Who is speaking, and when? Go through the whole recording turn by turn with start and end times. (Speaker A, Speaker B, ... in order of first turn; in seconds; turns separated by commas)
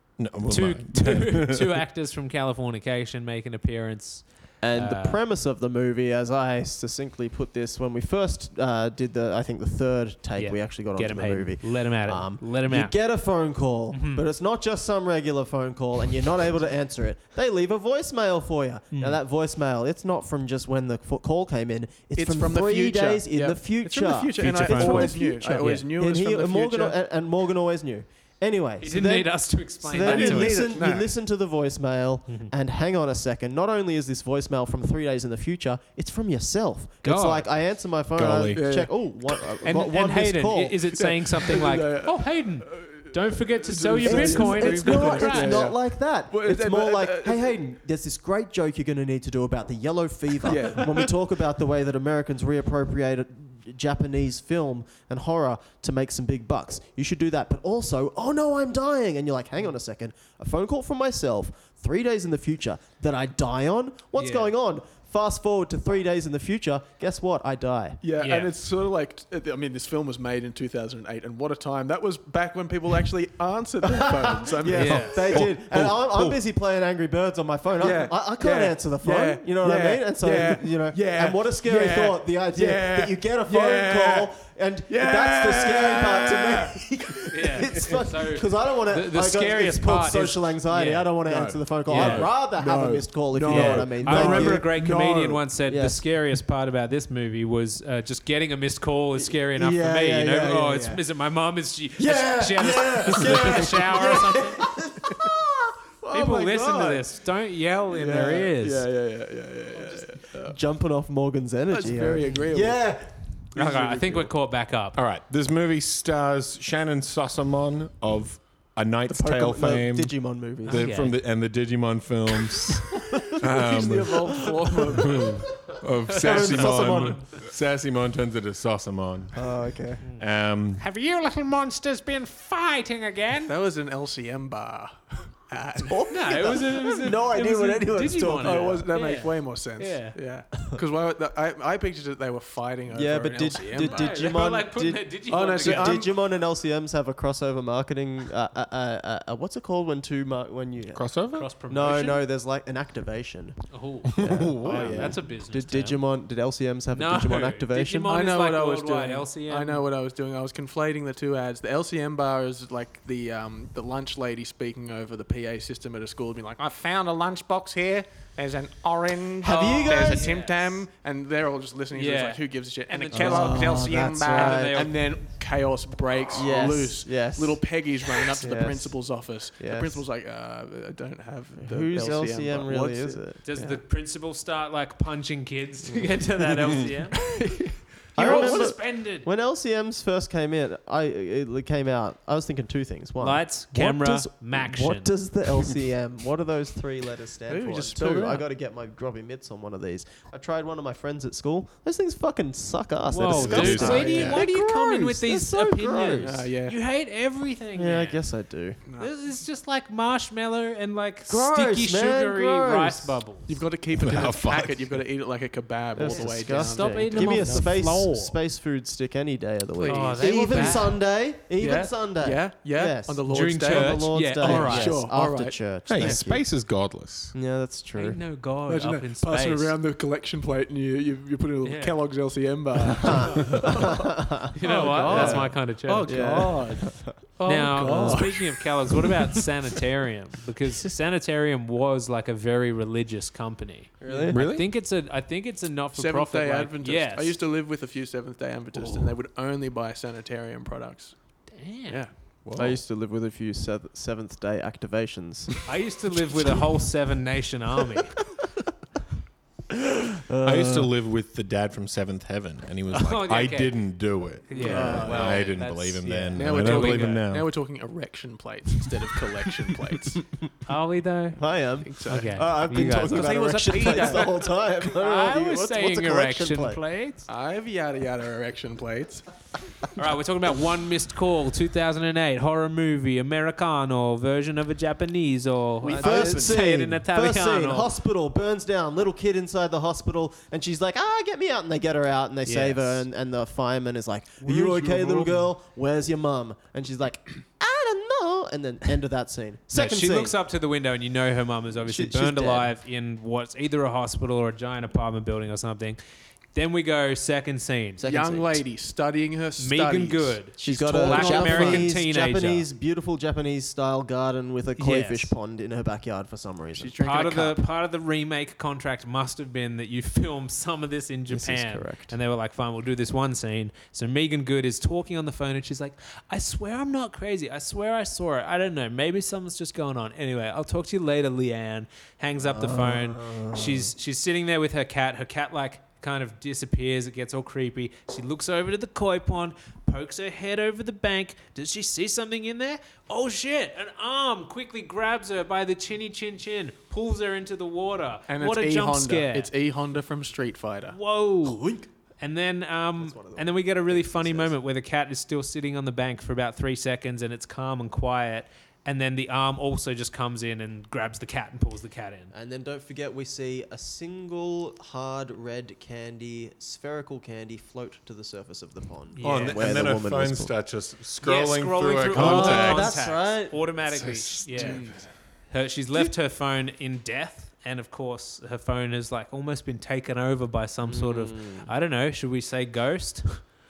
Speaker A: 0.2-1.7, Speaker B: 0.5-5.2, Speaker C: 4.6-40.9, Speaker B: 10.3-12.9, Speaker B: 13.9-14.2, Speaker B: 18.9-19.2, Speaker D: 22.1-27.0, Speaker B: 24.4-25.9, Speaker B: 28.8-30.7, Speaker D: 30.0-31.1, Speaker B: 37.0-37.5, Speaker A: 38.1-38.6, Speaker D: 38.5-38.9, Speaker B: 39.6-45.7, Speaker D: 41.0-45.8, Speaker C: 44.0-68.0, Speaker D: 46.3-47.6, Speaker D: 50.4-51.1, Speaker B: 64.2-64.5, Speaker D: 68.0-76.3, Speaker B: 68.2-68.5, Speaker C: 73.8-94.7, Speaker B: 74.7-75.4, Speaker A: 75.3-76.0, Speaker D: 77.8-84.3, Speaker D: 84.9-86.8, Speaker B: 87.3-91.1, Speaker D: 91.2-95.4, Speaker B: 91.9-92.3, Speaker B: 93.5-104.6, Speaker C: 95.7-96.0, Speaker C: 99.2-101.0, Speaker C: 102.0-106.5, Speaker B: 106.1-108.9, Speaker D: 106.4-107.0, Speaker D: 107.9-110.5, Speaker C: 109.8-113.1, Speaker D: 111.7-112.8, Speaker B: 113.5-115.0, Speaker D: 113.5-114.3, Speaker A: 114.9-129.4, Speaker C: 119.1-120.9, Speaker B: 120.7-121.1, Speaker C: 122.9-123.4, Speaker D: 123.4-125.4, Speaker C: 124.5-125.1, Speaker C: 125.7-127.2, Speaker D: 126.2-126.7, Speaker C: 129.3-130.0, Speaker A: 130.2-130.8, Speaker B: 130.8-133.5, Speaker D: 133.5-136.5, Speaker C: 135.7-138.9, Speaker B: 136.1-140.2, Speaker D: 138.4-144.4, Speaker C: 142.9-145.1, Speaker B: 143.7-146.0, Speaker D: 145.3-146.1, Speaker C: 145.6-151.1, Speaker A: 150.9-151.5, Speaker B: 151.3-152.2, Speaker C: 151.7-153.6, Speaker B: 153.7-156.0, Speaker C: 154.2-158.1, Speaker A: 154.2-155.2, Speaker B: 156.9-159.8, Speaker D: 158.1-183.7, Speaker C: 169.4-170.3, Speaker B: 169.4-170.8, Speaker B: 171.9-174.9, Speaker C: 173.1-174.9, Speaker C: 176.3-177.6, Speaker C: 178.3-179.0, Speaker C: 179.6-180.0, Speaker C: 181.6-183.4, Speaker B: 183.4-187.3, Speaker D: 187.3-188.7, Speaker C: 188.1-206.4, Speaker B: 188.2-189.3, Speaker B: 193.2-195.1, Speaker D: 197.5-198.4, Speaker B: 203.1-208.2, Speaker A: 203.2-204.4, Speaker D: 206.2-206.8, Speaker C: 207.7-208.8, Speaker D: 208.8-209.1, Speaker B: 208.9-213.6, Speaker C: 211.3-213.1, Speaker D: 213.5-217.7, Speaker A: 214.0-214.8, Speaker C: 215.9-226.6, Speaker B: 216.1-218.4, Speaker D: 219.7-221.0, Speaker B: 219.8-221.0, Speaker D: 221.6-226.2, Speaker B: 223.2-225.0, Speaker A: 225.9-227.3, Speaker C: 227.3-228.2, Speaker B: 227.9-229.8, Speaker D: 228.7-234.1, Speaker B: 231.6-232.0, Speaker C: 233.0-237.1, Speaker B: 233.3-233.7, Speaker B: 234.5-236.5, Speaker D: 234.6-238.6, Speaker B: 237.4-247.4, Speaker C: 237.8-238.3, Speaker C: 244.0-244.4, Speaker D: 244.0-244.3, Speaker A: 244.3-244.7, Speaker D: 245.9-251.2, Speaker B: 251.5-252.0, Speaker D: 251.9-252.7, Speaker C: 252.6-255.7, Speaker B: 255.7-258.1, Speaker C: 259.7-260.9, Speaker A: 260.4-267.5, Speaker B: 262.9-263.8, Speaker B: 264.5-267.2, Speaker D: 264.5-265.5, Speaker C: 264.6-265.4, Speaker D: 266.3-270.2, Speaker B: 270.7-277.3, Speaker C: 271.4-276.8, Speaker D: 271.8-274.4, Speaker D: 277.3-279.2, Speaker B: 279.9-287.9, Speaker D: 285.8-286.5, Speaker C: 285.9-300.4, Speaker B: 292.4-293.0, Speaker D: 294.4-295.5, Speaker B: 299.7-306.0, Speaker C: 301.8-302.7, Speaker B: 306.5-308.0, Speaker C: 308.0-308.6, Speaker D: 308.0-311.9, Speaker B: 309.6-312.7, Speaker C: 310.6-316.9, Speaker B: 314.8-315.3, Speaker D: 316.7-317.6, Speaker B: 317.0-349.5, Speaker C: 321.3-322.1, Speaker C: 332.4-333.9, Speaker D: 348.3-351.0, Speaker B: 350.9-351.7, Speaker C: 351.4-351.9, Speaker B: 352.2-362.3, Speaker C: 353.0-354.6, Speaker C: 362.3-370.5, Speaker B: 369.1-370.0, Speaker A: 369.2-373.0, Speaker B: 371.2-374.8, Speaker C: 372.1-374.2, Speaker A: 374.0-374.8, Speaker D: 374.5-375.0, Speaker B: 375.5-383.4, Speaker C: 380.8-381.7